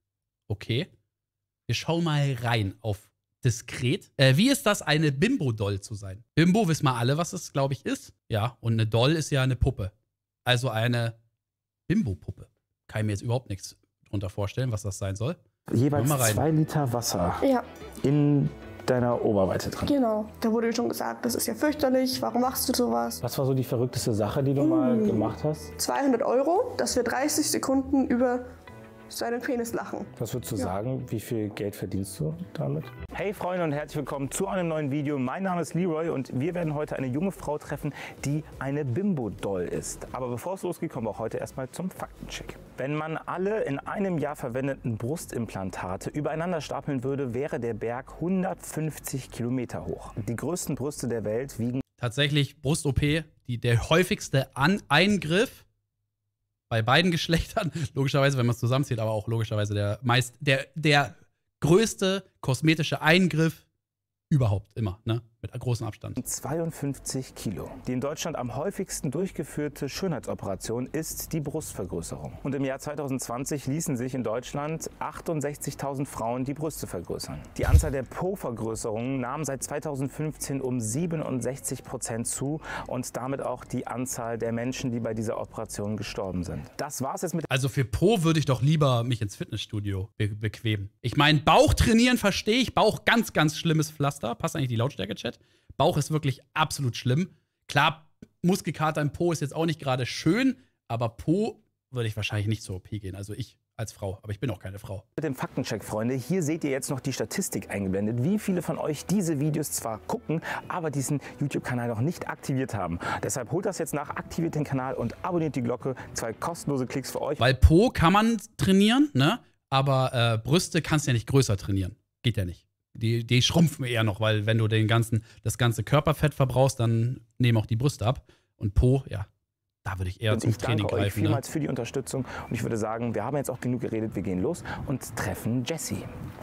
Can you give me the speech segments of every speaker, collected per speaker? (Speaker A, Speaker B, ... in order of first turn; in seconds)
Speaker A: 0.5-0.9, 1.7-9.9, 10.5-11.2, 11.9-15.4, 15.9-16.4, 52.0-55.6, 56.7-63.6, 64.3-66.2, 87.5-105.0, 117.4-129.3, 129.8-131.4
Speaker B: 15.7-17.4, 18.0-19.9, 23.2-25.7, 30.2-51.8, 66.2-87.5, 105.2-117.5, 130.3-136.1
Speaker C: 19.9-23.2, 24.6-28.4, 29.1-30.7